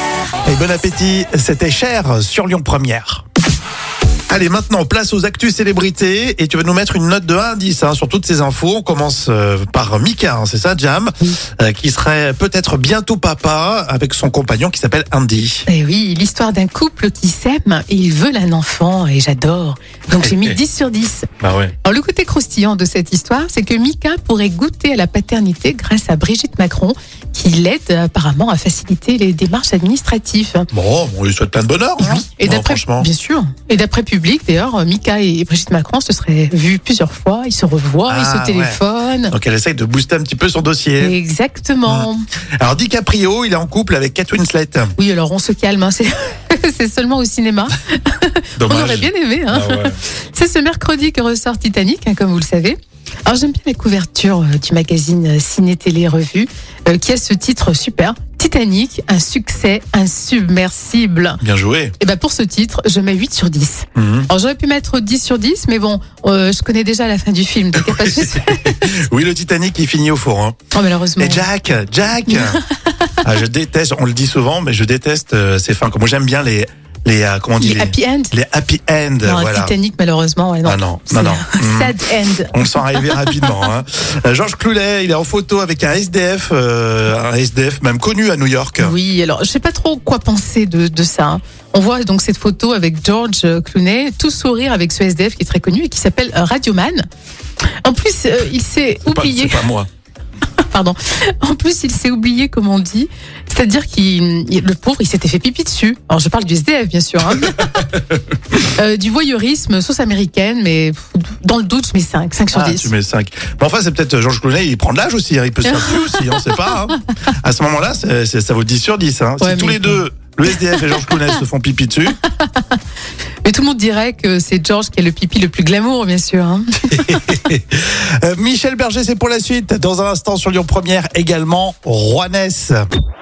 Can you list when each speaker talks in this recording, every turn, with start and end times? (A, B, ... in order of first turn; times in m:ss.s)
0:00.5-0:03.2 A
0:04.3-0:15.7 A
0:15.7-0:21.3 B
0:20.2-0:20.6 A
0:21.4-0:21.7 A
0:21.8-0:30.7 B
0:30.7-0:33.1 A
0:32.0-0:39.3 B
0:38.1-0:38.8 A
0:39.3-0:41.2 A
0:41.0-0:42.2 B
0:42.6-0:45.0 A
0:45.0-1:01.4 B
0:48.6-0:50.0 A
1:01.4-1:02.0 A
1:02.0-1:09.0 B
1:04.0-1:04.3 A
1:08.0-1:10.6 A
1:10.7-1:11.5 B
1:11.2-1:12.6 A
1:12.3-1:13.1 B
1:13.2-1:19.7 A
1:17.6-1:18.3 B
1:19.2-1:23.7 B
1:20.6-1:22.0 A
1:22.5-1:29.0 A
1:28.8-1:37.1 B
1:37.8-1:39.7 B
1:39.0-1:39.9 A
1:40.7-1:48.0 B
1:48.6-1:52.9 B
1:52.5-2:02.2 A
1:55.6-1:56.9 B
1:59.4-2:00.0 B
2:00.6-2:01.4 B
2:02.3-2:02.8 B
2:03.4-2:07.3 B
2:06.9-2:12.8 A